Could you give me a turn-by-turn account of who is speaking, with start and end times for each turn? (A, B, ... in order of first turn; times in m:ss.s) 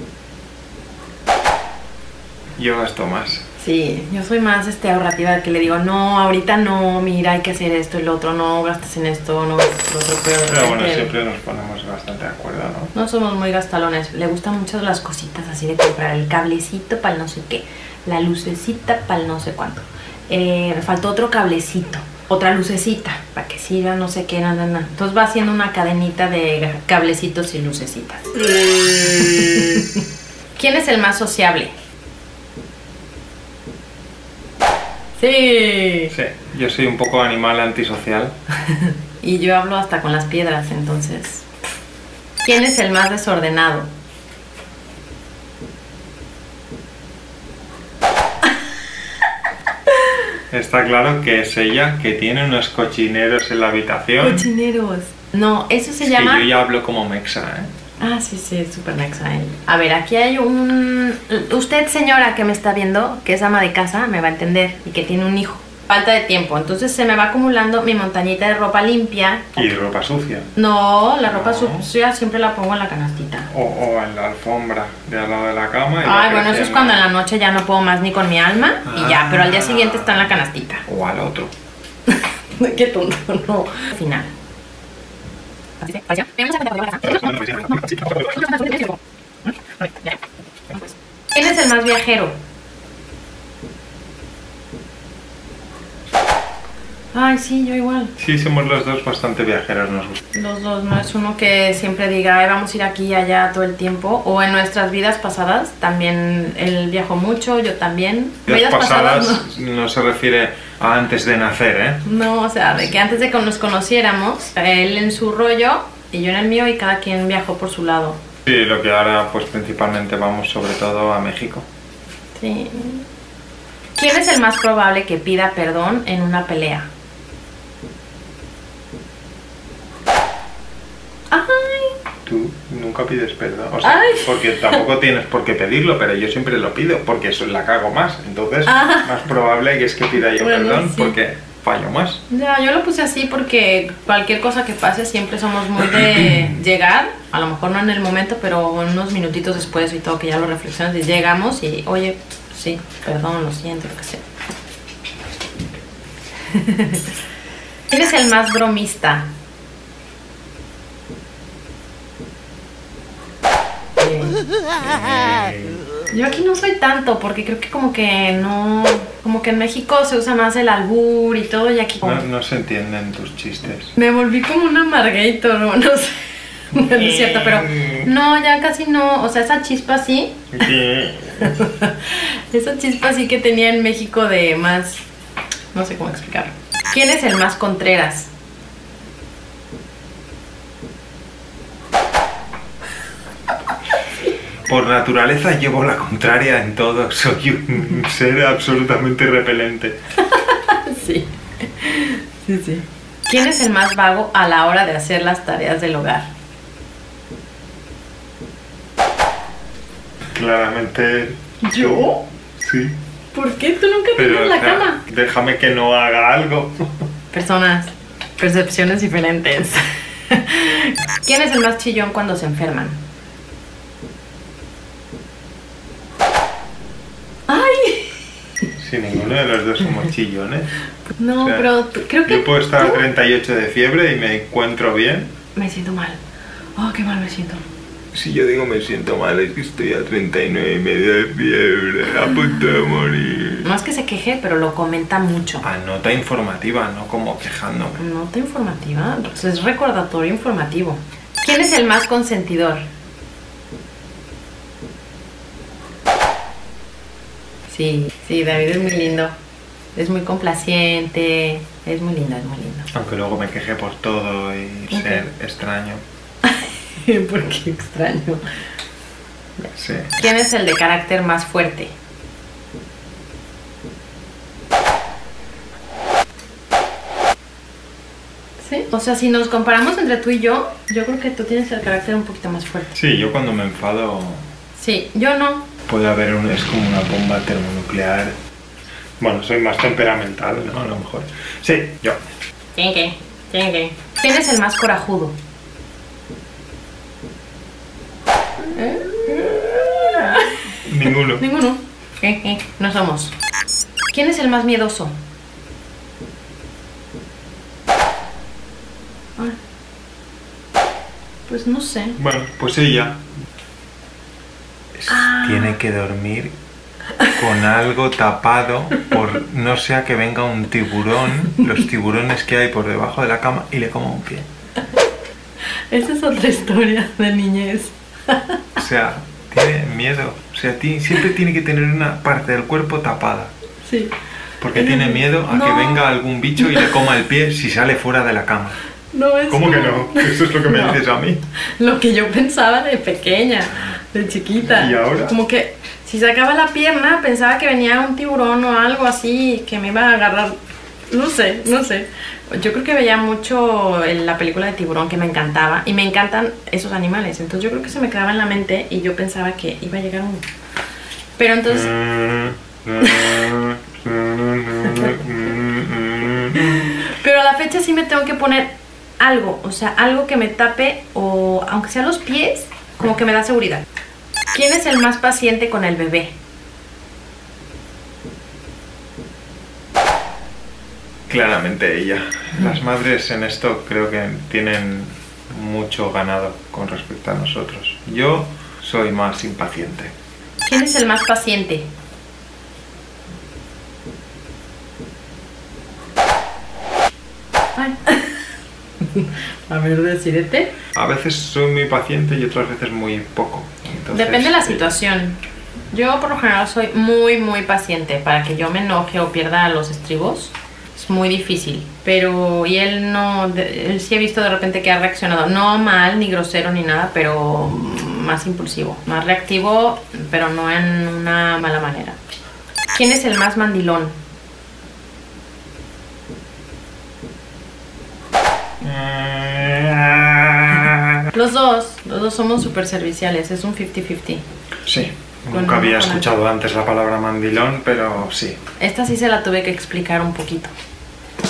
0:02.6-0:03.4 A
0:03.6-0:11.1 B
0:10.4-0:12.9 A
0:12.9-0:28.4 B
0:28.6-0:29.8 A
0:29.1-0:30.0 B
0:30.6-0:31.7 B
0:35.2-0:36.1 B
0:36.1-0:38.3 A
0:38.7-0:41.4 B
0:42.4-0:43.9 B
0:50.5-0:54.5 A
0:54.2-0:56.5 B
0:56.0-0:57.7 A
0:58.0-1:09.6 B
1:09.6-1:10.5 A
1:10.6-1:13.5 B
1:11.2-1:11.9 A
1:13.5-1:17.0 A
1:16.0-1:20.8 B
1:18.8-1:20.3 A
1:20.8-1:21.5 A
1:22.1-1:24.3 B
1:25.8-1:29.0 B
1:27.0-1:28.3 A
1:31.3-1:32.4 B
1:37.1-1:38.1 B
1:38.2-1:40.2 A
1:40.3-1:49.5 B
1:48.5-1:52.0 A
1:52.0-1:58.2 B
1:58.4-2:01.6 A
2:02.4-2:03.0 B
2:04.0-2:06.9 B
2:11.3-2:12.0 B
2:12.2-2:22.2 A
2:13.8-2:14.8 B
2:18.6-2:19.2 B
2:20.4-2:21.2 B
2:22.3-2:34.2 B
2:36.5-2:37.1 B
2:37.9-2:39.3 B
2:44.0-2:44.4 B
2:44.8-2:45.8 A
2:46.1-2:52.2 B
2:52.0-2:53.9 A
2:54.0-3:00.5 B
2:56.8-2:58.1 A
3:00.6-3:01.5 A
3:01.4-3:05.0 B
3:05.7-3:08.3 B
3:14.7-3:20.0 A
3:20.2-3:26.3 B
3:30.3-3:33.0 A
3:31.6-3:32.2 B
3:33.3-3:35.0 B
3:34.2-3:36.9 A
3:37.3-3:43.0 B
3:47.5-3:48.2 B
3:48.8-3:50.7 A
3:51.2-3:53.0 B
3:51.3-3:51.7 A
3:52.2-3:55.3 A
3:55.6-3:56.2 B
3:56.8-3:57.6 B
3:58.1-4:03.7 A
4:03.6-4:05.6 B
4:05.6-4:08.0 A
4:08.0-4:12.8 B
4:17.7-4:19.3 B
4:20.0-4:22.9 B
4:22.9-4:26.0 A
4:24.9-4:25.2 B
4:26.4-4:28.4 B
4:29.7-4:30.1 A
4:30.2-4:31.9 B
4:38.6-4:42.9 B
4:42.9-4:44.4 A
4:44.8-4:45.6 B
4:45.9-4:48.3 A
4:49.2-4:52.2 A
4:52.8-4:55.4 B
4:58.6-5:00.6 B
5:00.8-5:01.4 A
5:01.4-5:03.3 B
5:04.1-5:05.1 B
5:11.5-5:12.2 B
5:12.2-5:13.2 A
5:14.9-5:16.5 A
5:15.1-5:15.8 B
5:17.3-5:24.5 A
5:25.9-5:28.6 B
5:28.8-5:33.5 A
5:33.8-5:34.1 B
5:34.6-5:38.8 A
5:34.7-5:36.1 B
5:36.6-5:36.9 B
5:39.1-5:41.0 B
5:39.5-5:41.4 A
5:41.8-5:50.6 B
5:44.6-5:45.4 A
5:51.1-6:00.4 B
6:01.4-6:01.9 B
6:01.7-6:06.9 A
6:03.0-6:03.4 B
6:04.9-6:05.1 B
6:06.6-6:13.8 B
6:14.5-6:16.3 B
6:21.3-6:30.1 A
6:30.6-6:31.9 B
6:37.8-6:38.4 B
6:39.0-6:40.7 B
6:40.9-6:44.8 A
6:44.1-6:45.4 B
6:45.9-7:02.2 B
7:02.9-7:04.2 B
7:08.8-7:11.3 A
7:11.3-7:14.4 B
7:14.8-7:18.6 A
7:15.5-7:16.3 B
7:18.8-7:20.7 B